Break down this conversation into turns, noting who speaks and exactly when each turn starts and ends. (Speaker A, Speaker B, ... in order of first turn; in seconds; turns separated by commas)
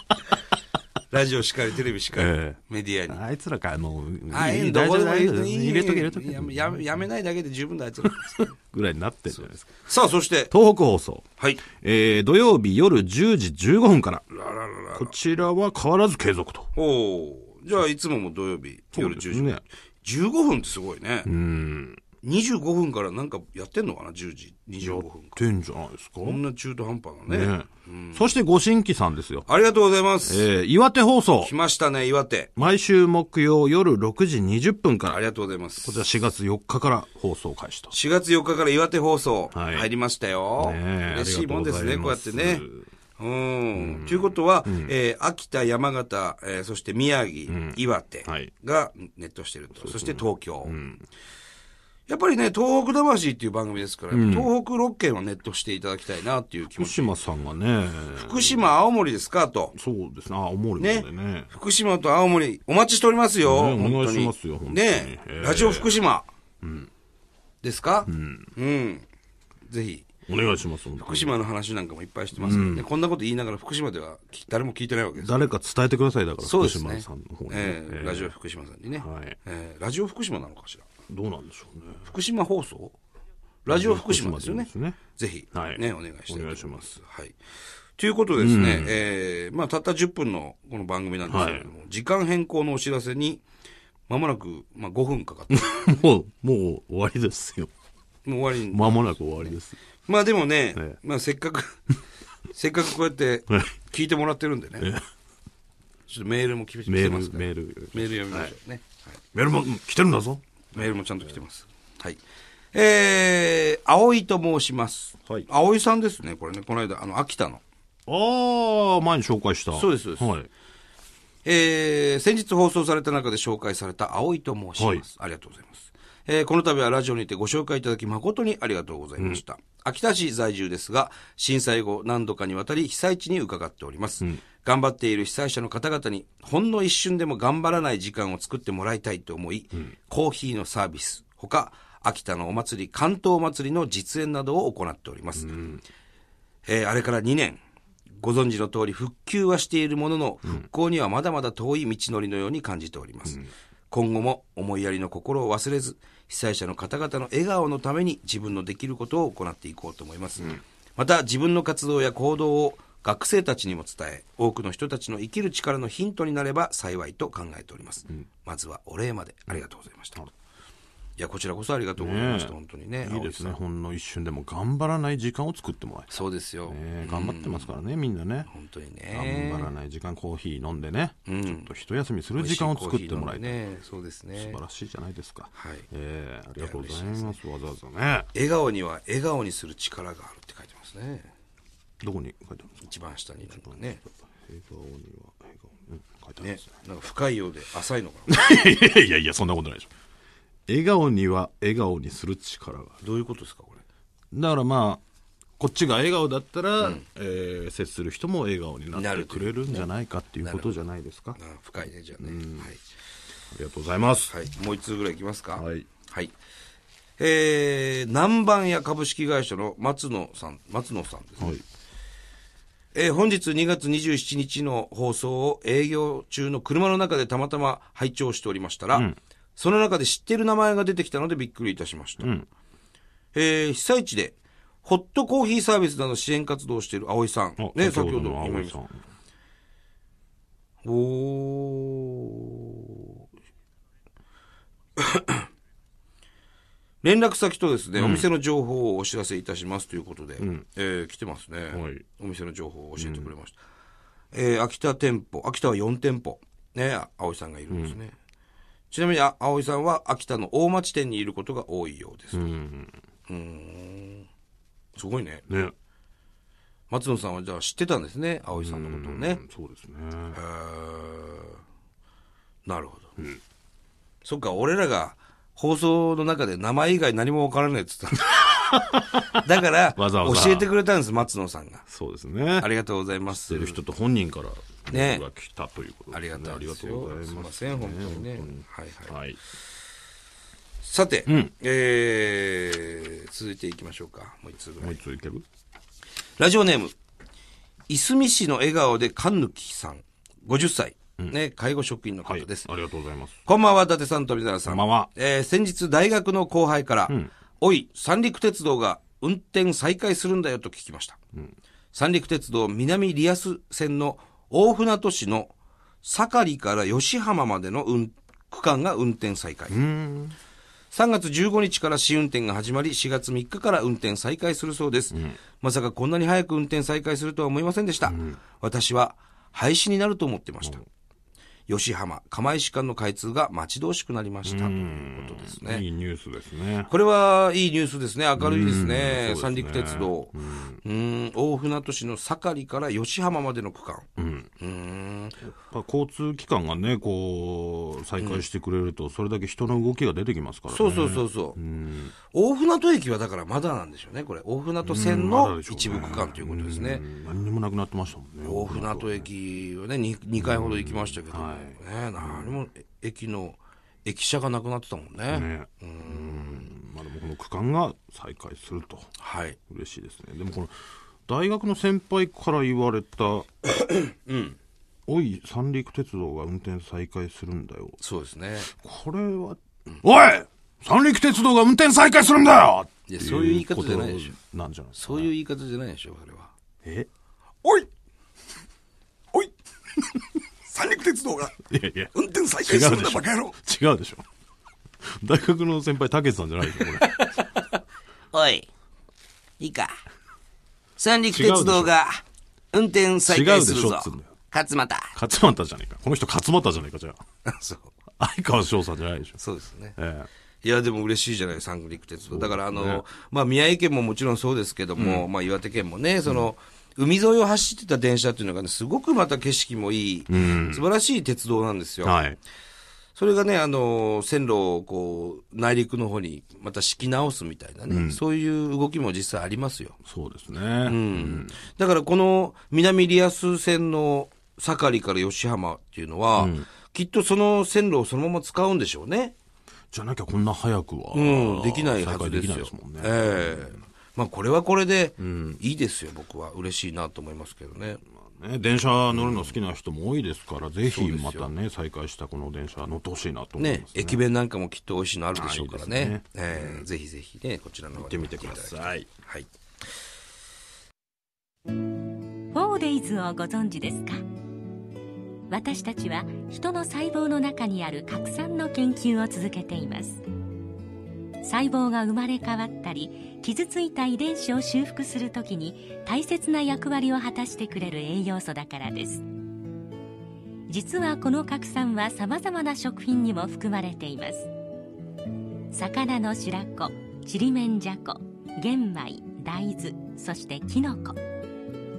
Speaker A: 1.1-3.2, Speaker B: 2.1-6.8, Speaker A: 4.3-8.5, Speaker B: 8.4-9.9, Speaker A: 9.3-10.5, Speaker B: 10.5-14.3, Speaker A: 11.4-11.6, Speaker A: 14.3-15.1, Speaker B: 14.9-16.7, Speaker A: 16.8-21.3, Speaker B: 18.9-19.6, Speaker B: 21.2-22.0, Speaker A: 22.2-25.4, Speaker B: 24.8-26.4, Speaker A: 26.2-28.3, Speaker B: 27.3-29.5, Speaker A: 29.5-30.5, Speaker B: 30.3-31.5, Speaker A: 31.4-32.5, Speaker B: 32.6-35.2, Speaker A: 35.1-36.1, Speaker B: 35.8-37.9, Speaker A: 37.9-42.6, Speaker B: 39.5-39.9, Speaker B: 40.6-42.9, Speaker A: 43.2-50.8, Speaker B: 43.8-44.9, Speaker B: 47.5-48.5, Speaker B: 49.8-51.0, Speaker A: 52.1-57.2, Speaker B: 54.1-54.5, Speaker B: 56.7-58.7, Speaker A: 58.1-59.7, Speaker B: 59.7-61.5, Speaker A: 60.8-66.3, Speaker B: 63.4-66.0, Speaker B: 66.6-66.9, Speaker A: 67.6-69.1, Speaker B: 68.1-68.5, Speaker A: 69.7-70.1, Speaker B: 70.3-71.4, Speaker A: 71.0-75.3, Speaker B: 72.4-72.9, Speaker B: 75.2-78.3, Speaker A: 76.4-80.9, Speaker B: 79.0-79.4, Speaker B: 81.1-82.1, Speaker A: 82.0-82.9, Speaker A: 83.7-87.4, Speaker B: 83.7-85.0, Speaker B: 85.5-87.0, Speaker A: 88.0-93.4, Speaker B: 88.4-89.0, Speaker B: 91.3-91.7, Speaker A: 94.1-96.0, Speaker B: 95.5-97.7, Speaker A: 98.2-101.8, Speaker B: 98.7-99.8, Speaker A: 102.5-104.9, Speaker B: 104.8-105.0, Speaker A: 106.1-109.2, Speaker B: 106.9-108.5, Speaker B: 109.3-110.4, Speaker A: 110.7-112.2, Speaker A: 112.7-117.6, Speaker B: 118.1-120.5, Speaker A: 119.7-120.3, Speaker A: 121.5-145.6, Speaker B: 124.8-125.0, Speaker B: 145.4-145.8, Speaker A: 146.7-147.6, Speaker A: 148.2-170.3, Speaker A: 171.2-173.6, Speaker B: 172.0-178.5, Speaker A: 176.1-177.7, Speaker A: 178.5-179.7, Speaker B: 179.1-183.7, Speaker A: 181.3-181.7, Speaker A: 182.4-184.6, Speaker B: 184.4-188.3, Speaker A: 185.5-185.9, Speaker A: 186.6-187.4, Speaker A: 188.3-191.3, Speaker B: 192.0-192.9, Speaker A: 192.8-194.0, Speaker B: 194.0-196.7, Speaker A: 196.4-198.4, Speaker B: 198.3-199.9, Speaker B: 200.7-203.0, Speaker A: 203.0-203.8, Speaker B: 204.3-205.0, Speaker B: 205.6-211.4, Speaker A: 208.9-210.8, Speaker A: 211.3-212.8, Speaker B: 212.2-212.7, Speaker B: 213.5-214.3, Speaker A: 214.3-216.3, Speaker B: 215.6-215.9, Speaker A: 217.2-221.6, Speaker A: 222.9-232.3, Speaker B: 232.2-232.5, Speaker A: 233.3-238.8, Speaker B: 237.6-239.0, Speaker A: 240.8-243.2, Speaker A: 245.0-245.5, Speaker A: 247.0-253.6, Speaker B: 248.0-248.3, Speaker B: 250.4-250.7, Speaker B: 251.7-252.1, Speaker B: 253.0-253.3, Speaker A: 254.3-258.1, Speaker B: 257.7-258.0, Speaker A: 258.9-262.5, Speaker B: 262.3-262.9, Speaker A: 263.3-264.3, Speaker A: 265.0-265.5, Speaker A: 266.9-269.4, Speaker B: 268.6-270.4, Speaker A: 270.4-271.6, Speaker A: 272.6-273.1, Speaker A: 274.2-278.5, Speaker B: 278.4-279.4, Speaker A: 279.4-281.8, Speaker B: 280.0-280.7, Speaker B: 281.9-282.7, Speaker A: 282.6-283.8, Speaker B: 283.3-289.4, Speaker A: 284.9-285.2, Speaker A: 286.1-289.2, Speaker A: 290.8-295.0, Speaker B: 291.3-291.5, Speaker B: 294.8-295.4, Speaker A: 296.4-296.9, Speaker A: 297.9-302.7, Speaker B: 302.3-303.4, Speaker A: 303.5-311.2, Speaker B: 304.7-305.1, Speaker A: 311.9-319.8, Speaker B: 319.7-320.4, Speaker A: 320.9-330.8, Speaker B: 328.1-328.4, Speaker A: 331.7-335.8, Speaker B: 334.4-336.9, Speaker A: 336.9-344.1, Speaker B: 338.4-340.8, Speaker B: 344.2-344.5, Speaker A: 344.6-345.4, Speaker B: 345.7-352.1, Speaker A: 348.2-348.4, Speaker A: 350.7-351.6, Speaker A: 352.3-357.0, Speaker B: 354.8-359.3, Speaker A: 358.4-366.7, Speaker B: 360.4-362.6, Speaker B: 365.3-369.1, Speaker A: 369.2-369.6, Speaker B: 369.7-370.7, Speaker B: 371.3-373.5, Speaker A: 373.9-374.6, Speaker B: 375.1-378.0, Speaker A: 378.0-378.7, Speaker B: 378.7-385.3, Speaker A: 383.1-384.4, Speaker A: 385.0-386.5, Speaker A: 390.7-391.6, Speaker B: 391.7-392.1, Speaker A: 392.1-393.6, Speaker B: 392.6-394.2, Speaker B: 395.2-397.2, Speaker A: 396.8-397.8, Speaker A: 398.3-398.7, Speaker A: 399.6-399.9, Speaker A: 401.0-405.1, Speaker B: 401.3-401.9, Speaker B: 403.3-404.3, Speaker B: 405.1-407.2, Speaker A: 407.4-407.9, Speaker B: 408.2-409.4, Speaker A: 409.4-410.0, Speaker B: 410.0-410.3, Speaker A: 410.6-422.2, Speaker B: 412.3-413.0, Speaker B: 415.0-415.3, Speaker B: 420.3-420.8, Speaker B: 422.0-422.4, Speaker A: 423.1-430.0, Speaker B: 427.9-428.2, Speaker B: 430.1-431.6, Speaker A: 430.8-439.4, Speaker B: 436.4-436.7, Speaker B: 439.9-443.7, Speaker A: 441.1-448.0, Speaker B: 445.2-445.6, Speaker B: 448.3-454.2, Speaker A: 449.1-449.5, Speaker A: 450.9-451.5, Speaker A: 453.6-459.5, Speaker B: 455.4-456.9, Speaker B: 458.0-459.1, Speaker C: 462.5-464.2, Speaker C: 465.5-470.2, Speaker C: 471.4-479.2, Speaker C: 480.7-484.5, Speaker C: 485.7-491.2